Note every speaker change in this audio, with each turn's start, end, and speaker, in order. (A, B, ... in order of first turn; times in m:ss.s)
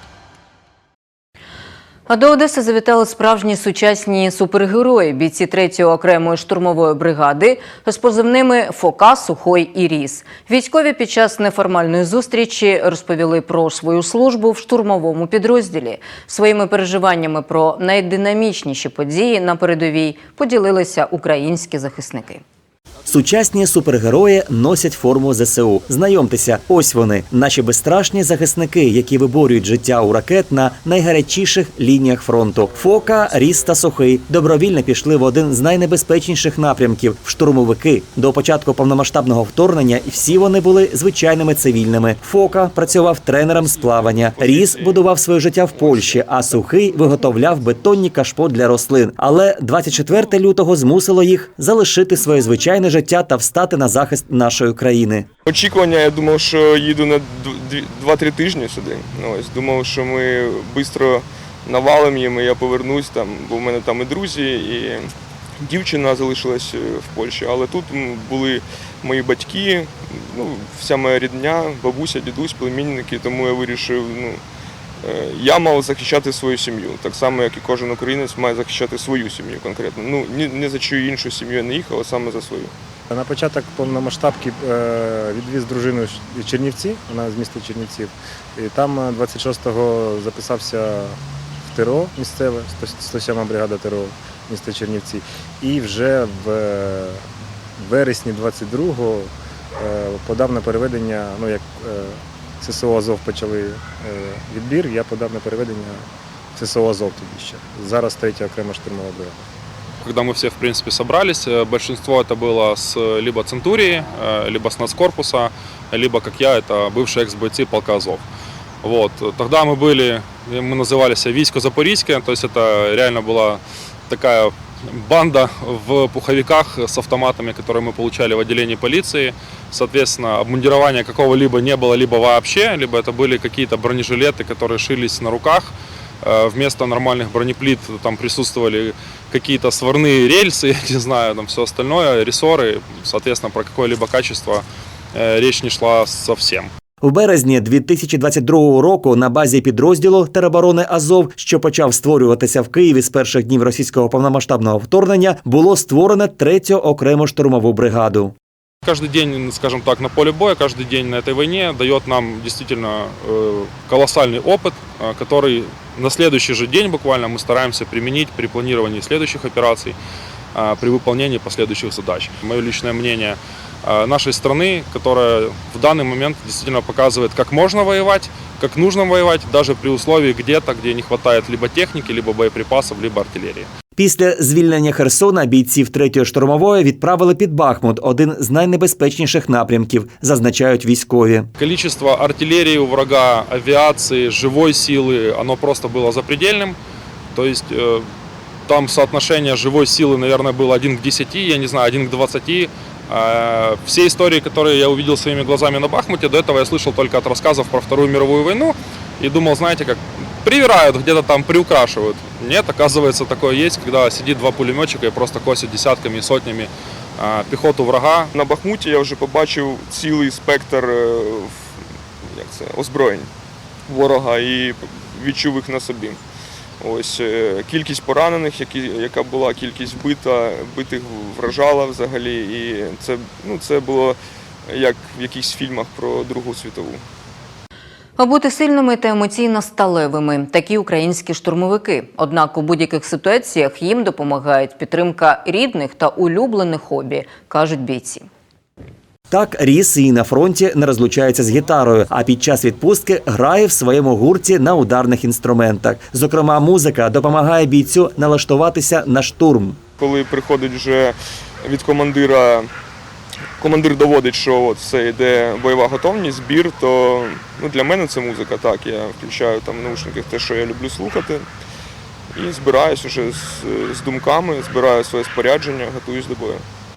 0:02.1-0:22.4 A
0:23.0-0:55.3 B
0:44.1-0:45.0 C
0:45.8-0:46.2 C
0:55.4-1:14.4 C
1:15.0-1:22.7 C
1:23.1-1:37.2 D
1:37.8-1:49.4 D
1:50.0-1:58.2 E
1:58.8-2:26.7 E
2:27.0-2:38.3 B
2:38.8-2:50.0 E
2:50.5-3:03.7 E
3:04.0-3:11.5 B
3:11.6-3:16.8 E
3:17.3-3:18.1 E
3:18.7-3:38.3 E
3:38.3-3:43.3 C
3:43.9-3:46.2 C
3:46.8-3:57.0 C
3:58.2-4:08.2 A
4:09.3-4:19.8 B
4:20.0-4:22.7 C
4:23.6-4:31.5 C
4:32.3-4:36.6 C